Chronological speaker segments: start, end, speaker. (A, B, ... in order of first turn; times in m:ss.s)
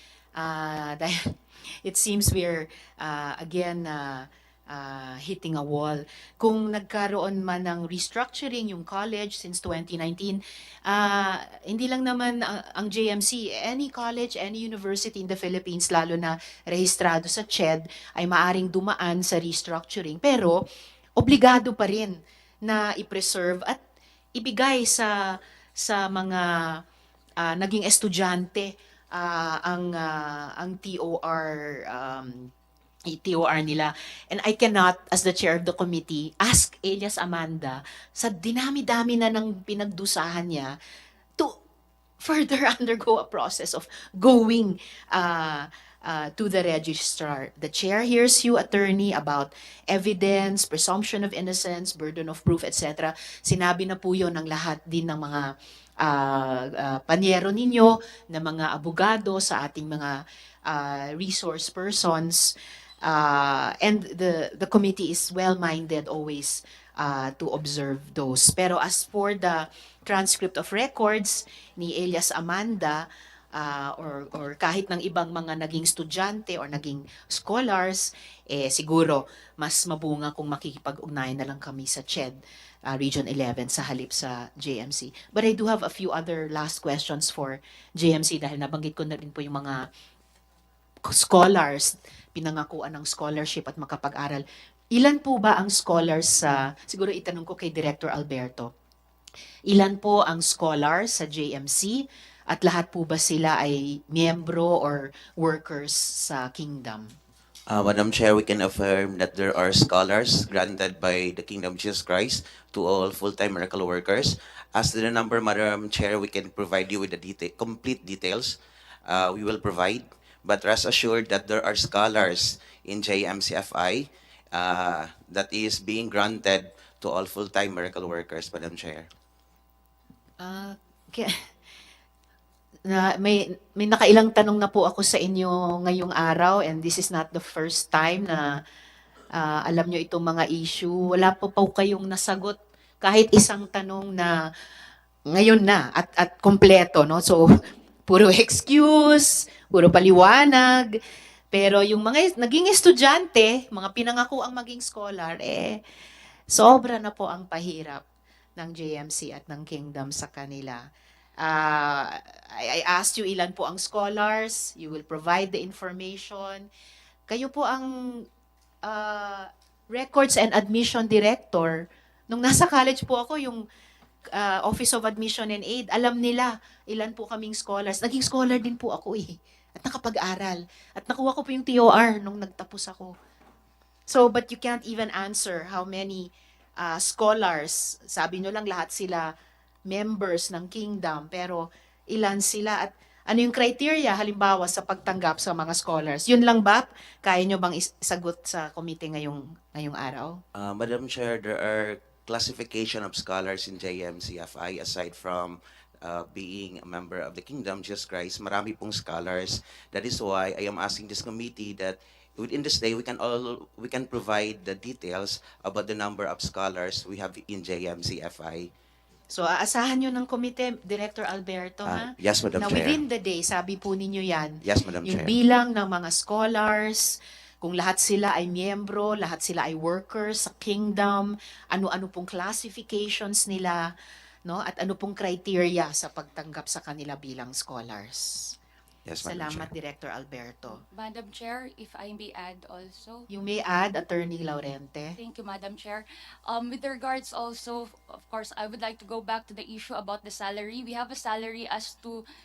0:00.4-0:20.6 A
0:21.2-0:23.8 A
0:24.4-0:26.8 A
0:27.4-0:32.5 A
0:33.1-0:40.8 A
0:42.2-1:29.9 A
1:31.0-1:38.7 A
1:39.7-1:47.2 A
1:47.7-2:09.1 B
2:10.4-2:11.4 A
2:12.8-2:18.6 A
2:19.3-2:24.3 A
2:25.3-2:27.5 A
2:28.1-2:31.0 A
2:31.5-2:35.8 A
2:36.5-2:38.0 A
2:38.6-2:40.8 A
2:41.4-2:46.7 A
2:47.3-2:48.2 A
2:48.8-2:53.6 A
2:54.3-3:03.1 A
3:04.1-3:09.3 A
3:09.8-3:20.4 A
3:20.6-3:38.7 B
3:39.3-3:53.9 A
3:41.8-3:43.0 B
3:44.6-3:45.3 B
3:54.4-3:58.6 A
3:59.1-3:59.7 B
3:59.2-4:00.8 A
4:01.0-4:03.2 C
4:03.3-4:05.2 A
4:05.2-4:12.2 C